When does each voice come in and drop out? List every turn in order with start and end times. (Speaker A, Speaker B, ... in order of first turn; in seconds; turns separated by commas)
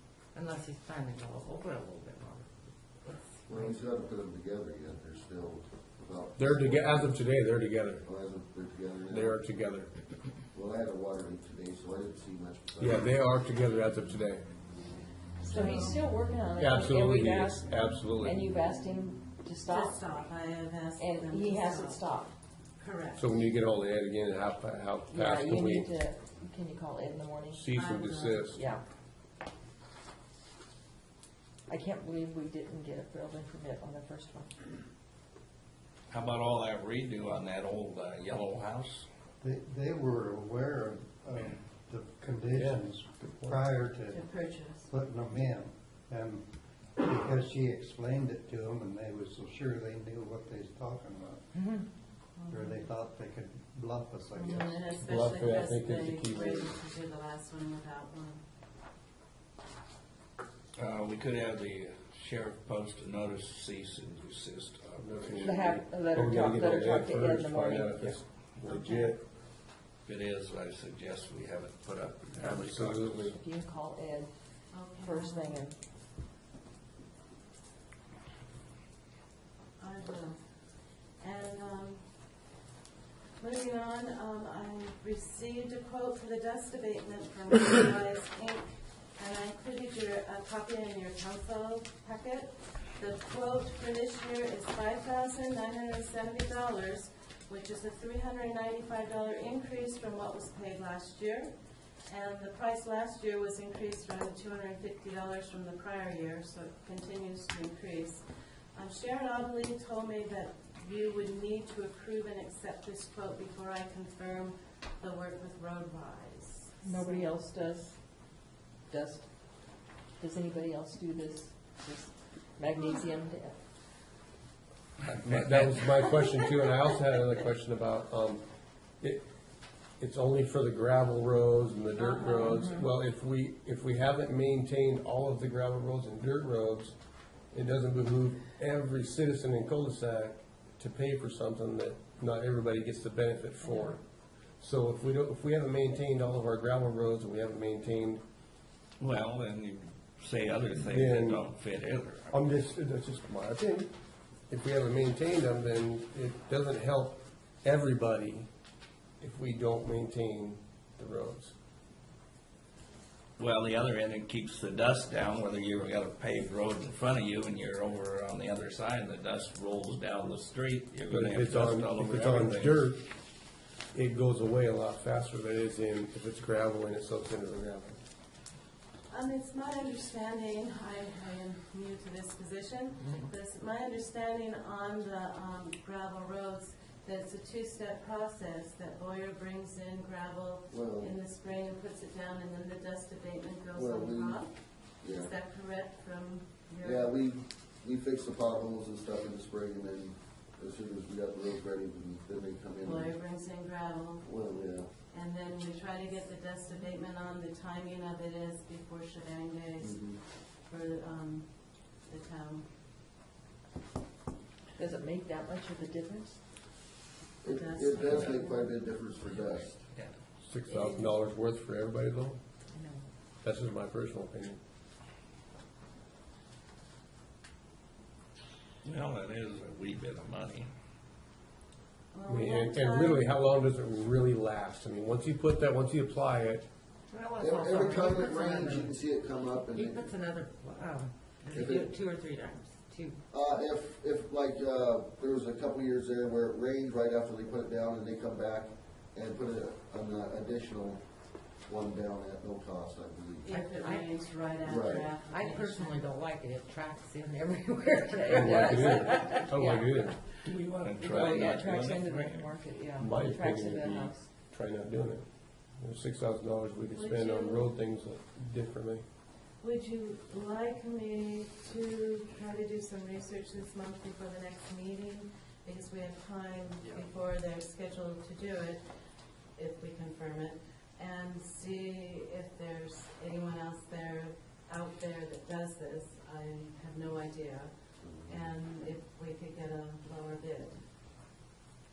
Speaker A: 0.3-2.5, Speaker A: 3.0-3.7, Speaker B: 3.5-7.2, Speaker C: 6.4-8.0, Speaker B: 8.0-9.3, Speaker C: 9.1-9.9, Speaker B: 10.5-13.1, Speaker C: 12.8-14.4, Speaker D: 15.4-16.1, Speaker E: 15.5-20.0, Speaker C: 16.6-18.5, Speaker D: 19.6-22.0, Speaker E: 21.0-22.3, Speaker D: 22.8-23.3, Speaker C: 23.2-25.9, Speaker E: 25.1-27.6, Speaker C: 27.5-28.6, Speaker D: 27.7-28.5, Speaker E: 28.5-28.8, Speaker E: 31.7-34.5, Speaker F: 36.1-39.1, Speaker G: 39.4-44.2, Speaker C: 42.5-43.6, Speaker D: 44.1-44.9, Speaker G: 44.9-46.5, Speaker G: 47.0-51.5, Speaker D: 52.4-52.9, Speaker G: 52.5-54.9, Speaker D: 54.3-58.4, Speaker C: 55.0-56.7, Speaker F: 60.8-65.6, Speaker C: 65.0-69.2, Speaker E: 65.4-68.2, Speaker D: 68.7-69.1, Speaker F: 70.0-73.3, Speaker C: 72.4-73.4, Speaker E: 73.3-74.3, Speaker D: 74.7-75.6, Speaker E: 75.0-75.7, Speaker D: 79.8-80.4, Speaker D: 81.2-82.0, Speaker D: 83.4-101.5, Speaker D: 102.1-108.2, Speaker D: 108.7-117.4, Speaker E: 116.8-117.9, Speaker E: 118.9-119.2, Speaker E: 120.2-123.6, Speaker F: 125.0-125.8, Speaker C: 125.2-128.4, Speaker C: 129.0-129.2, Speaker C: 130.0-136.9, Speaker D: 131.9-132.6, Speaker E: 132.5-132.9, Speaker C: 137.5-144.0, Speaker C: 144.6-148.2, Speaker F: 149.0-152.3, Speaker C: 150.8-151.4, Speaker C: 152.3-153.9, Speaker C: 154.5-158.5, Speaker C: 159.2-161.6, Speaker F: 163.4-172.8, Speaker C: 171.1-173.1, Speaker C: 173.9-178.0, Speaker D: 179.1-197.1, Speaker B: 190.7-191.1, Speaker B: 193.7-194.4, Speaker B: 195.0-195.3, Speaker B: 196.8-203.2, Speaker D: 202.8-204.3, Speaker B: 204.2-204.9, Speaker D: 205.1-212.7, Speaker B: 209.8-210.2, Speaker E: 214.8-216.4, Speaker B: 217.4-219.7, Speaker D: 217.4-218.8, Speaker F: 219.3-220.1, Speaker C: 220.4-222.4, Speaker D: 220.7-221.0, Speaker C: 223.4-224.6, Speaker F: 228.8-230.7, Speaker D: 232.1-233.4, Speaker C: 232.3-236.7, Speaker A: 237.1-239.0, Speaker B: 237.4-240.1, Speaker A: 239.7-243.2, Speaker B: 241.5-241.9, Speaker B: 243.3-251.0, Speaker B: 251.6-253.5, Speaker D: 253.4-256.0, Speaker A: 253.5-254.1, Speaker B: 254.6-255.1, Speaker A: 255.2-259.4, Speaker E: 258.1-260.1, Speaker C: 258.3-260.1, Speaker F: 260.4-262.5, Speaker E: 261.0-264.3, Speaker C: 263.0-265.2, Speaker C: 265.8-269.0, Speaker D: 266.9-267.7, Speaker D: 269.6-278.8, Speaker D: 279.6-287.7, Speaker B: 288.0-288.4, Speaker D: 288.2-290.8